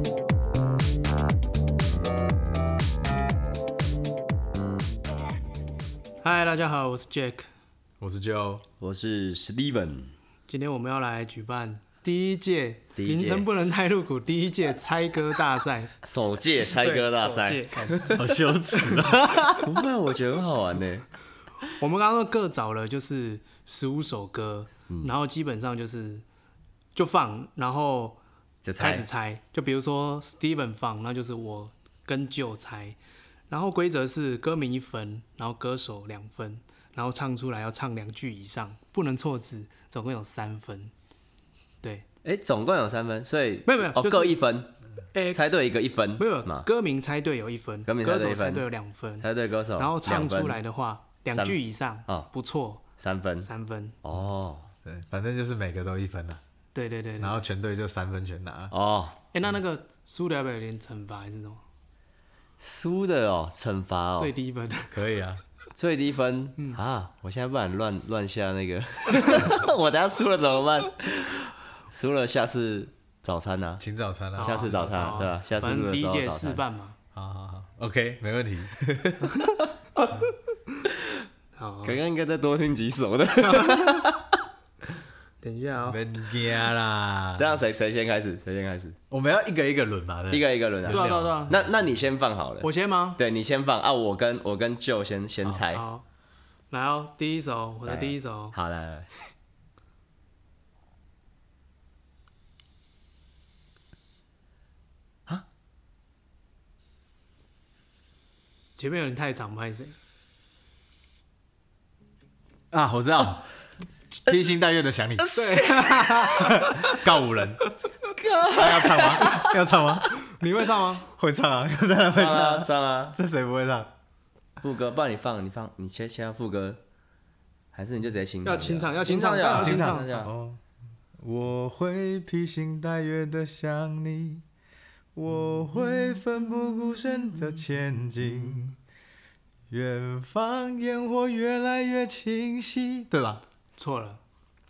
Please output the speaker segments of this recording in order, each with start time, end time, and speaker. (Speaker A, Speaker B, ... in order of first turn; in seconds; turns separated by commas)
Speaker A: 6.2-7.5, Speaker B: 8.0-8.6, Speaker C: 8.8-10.1, Speaker A: 10.5-15.9, Speaker C: 13.0-13.5, Speaker C: 16.0-18.2, Speaker A: 16.8-18.1, Speaker B: 18.1-19.7, Speaker C: 19.6-21.1, Speaker A: 21.8-26.2, Speaker A: 26.9-28.2, Speaker C: 28.6-29.1, Speaker A: 28.8-33.0, Speaker A: 33.5-40.9, Speaker C: 42.2-44.8, Speaker A: 43.7-44.4, Speaker A: 45.1-45.4, Speaker C: 45.3-46.7, Speaker A: 46.2-52.8, Speaker C: 47.9-48.7, Speaker C: 49.2-50.6, Speaker C: 51.3-52.3, Speaker C: 53.0-53.5, Speaker A: 53.4-54.0, Speaker C: 54.0-54.7, Speaker B: 54.9-56.4, Speaker A: 56.7-57.4, Speaker B: 57.2-58.7, Speaker C: 58.7-59.2, Speaker A: 59.3-61.6, Speaker C: 62.6-64.3, Speaker A: 64.2-65.0, Speaker B: 64.9-65.4, Speaker C: 65.8-73.8, Speaker B: 73.8-74.8, Speaker A: 74.4-77.0, Speaker C: 74.4-76.6, Speaker B: 77.1-79.4, Speaker A: 80.0-80.3, Speaker A: 81.6-82.0, Speaker C: 81.8-84.4, Speaker A: 83.5-84.0, Speaker A: 85.4-86.0, Speaker B: 85.9-87.5, Speaker C: 87.4-89.0, Speaker B: 89.1-91.7, Speaker C: 90.3-95.8, Speaker A: 90.9-91.5, Speaker A: 92.6-93.2, Speaker A: 95.7-96.0, Speaker A: 96.7-98.5, Speaker C: 97.9-99.3, Speaker A: 108.8-110.0, Speaker B: 112.7-113.5, Speaker B: 114.3-115.3, Speaker C: 115.2-116.3, Speaker A: 115.3-117.0, Speaker B: 116.3-117.6, Speaker C: 118.2-119.5, Speaker B: 118.5-120.1, Speaker A: 120.3-121.0, Speaker B: 121.1-123.9, Speaker C: 122.1-123.2, Speaker C: 124.6-126.8, Speaker C: 127.7-130.3, Speaker A: 128.4-130.1, Speaker B: 129.5-130.6, Speaker B: 131.2-134.4, Speaker B: 135.2-138.8, Speaker B: 139.7-143.4, Speaker A: 143.8-144.2